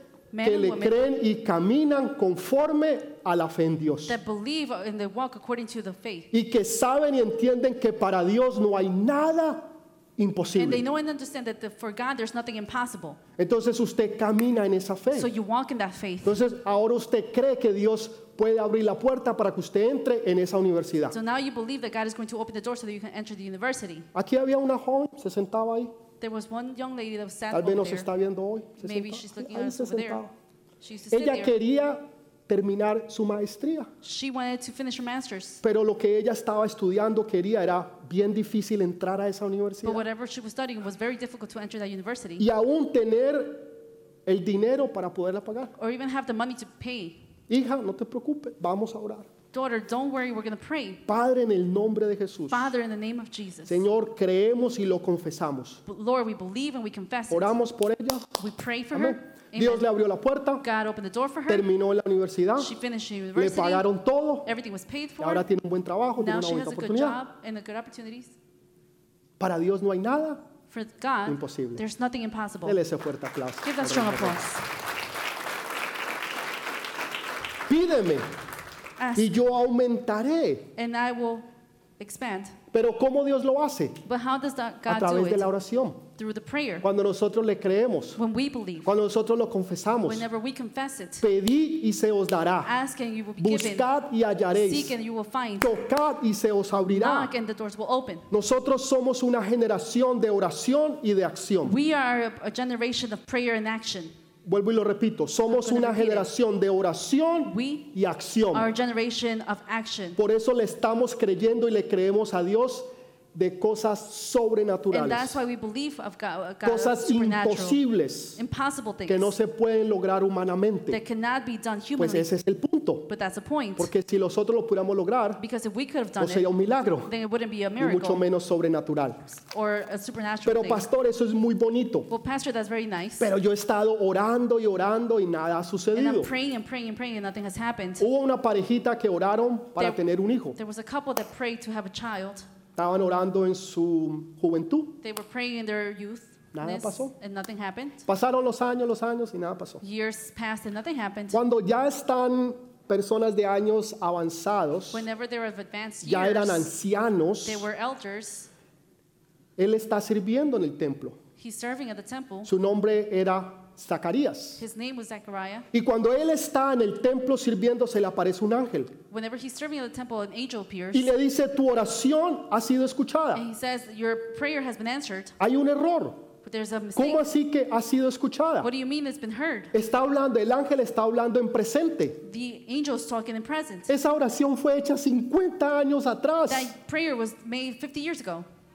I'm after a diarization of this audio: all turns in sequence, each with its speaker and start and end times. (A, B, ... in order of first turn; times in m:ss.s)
0:00.3-0:01.1 A
0:00.4-0:04.2 B
0:04.1-0:06.3 A
0:06.3-0:10.8 B
0:10.6-0:13.2 A
0:13.4-0:15.3 B
0:15.1-0:16.4 A
0:16.2-0:21.2 B
0:21.1-0:24.1 A
0:24.1-0:25.9 B
0:26.2-0:28.1 A
0:27.5-0:30.3 B
0:28.8-0:30.2 A
0:30.8-0:31.5 A
0:31.1-0:33.9 B
0:34.0-0:35.6 A
0:35.6-0:40.0 B
0:39.8-0:42.5 A
0:42.4-0:43.7 B
0:44.2-0:45.7 B
0:45.8-0:47.2 A
0:47.5-0:49.3 B
0:49.5-0:51.0 A
0:51.1-0:52.7 B
0:52.5-0:53.8 A
0:53.7-0:55.8 B
0:55.8-0:57.6 A
0:57.3-0:58.4 B
0:58.4-0:59.8 A
0:58.9-1:00.6 B
1:00.6-1:01.7 A
1:01.5-1:02.7 B
1:02.6-1:03.9 A
1:03.4-1:04.5 B
1:04.4-1:05.4 A
1:05.2-1:07.2 B
1:06.2-1:08.3 A
1:09.4-1:10.4 B
1:10.7-1:12.8 A
1:11.2-1:11.8 B
1:12.6-1:14.4 B
1:13.6-1:14.6 A
1:17.7-1:18.3 B
1:19.0-1:19.4 A
1:19.2-1:20.7 B
1:20.8-1:21.4 A
1:22.0-1:22.5 A
1:22.7-1:24.0 B
1:24.0-1:25.5 A
1:24.9-1:26.0 B
1:26.2-1:26.8 A
1:26.8-1:28.2 B
1:28.2-1:28.9 A
1:28.8-1:30.2 B
1:30.0-1:31.2 A
1:31.2-1:32.7 B
1:32.6-1:33.9 A
1:33.4-1:34.9 B
1:34.5-1:35.8 A
1:35.6-1:37.3 B
1:36.9-1:38.3 A
1:38.3-1:41.8 B
1:41.6-1:44.1 A
1:44.4-1:48.7 B
1:45.5-1:46.3 A
1:47.4-1:47.9 A
1:48.5-1:50.2 A
1:50.2-1:55.4 B
1:54.9-1:57.8 A
1:56.6-1:58.4 B
1:58.4-1:59.3 A
1:59.1-2:01.0 B
2:00.9-2:02.3 A
2:02.0-2:03.1 B
2:03.1-2:03.9 A
2:03.8-2:05.4 B
2:05.4-2:06.5 A
2:06.2-2:07.1 B
2:07.0-2:08.2 A
2:07.8-2:09.3 B
2:09.4-2:10.8 A
2:10.4-2:12.1 B
2:12.1-2:13.3 A
2:13.2-2:16.3 B
2:15.9-2:18.0 A
2:18.0-2:20.6 B
2:19.8-2:22.4 A
2:22.8-2:25.0 B
2:25.0-2:28.0 A
2:26.5-2:27.1 B
2:28.0-2:29.8 B
2:29.8-2:31.4 A
2:31.3-2:35.1 B
2:34.9-2:36.7 A
2:36.0-2:37.7 B
2:37.4-2:38.5 A
2:39.6-2:41.2 B
2:41.4-2:42.5 A
2:42.4-2:44.6 B
2:44.6-2:45.7 A
2:45.7-2:48.9 B
2:49.1-2:51.1 A
2:50.9-2:53.4 B
2:53.3-2:55.3 A
2:55.4-2:56.2 B
2:56.4-2:57.2 A
2:57.0-2:58.7 B
2:58.6-2:59.7 A
2:59.7-3:02.2 B
3:02.2-3:03.9 A
3:03.9-3:06.7 B
3:06.5-3:08.4 A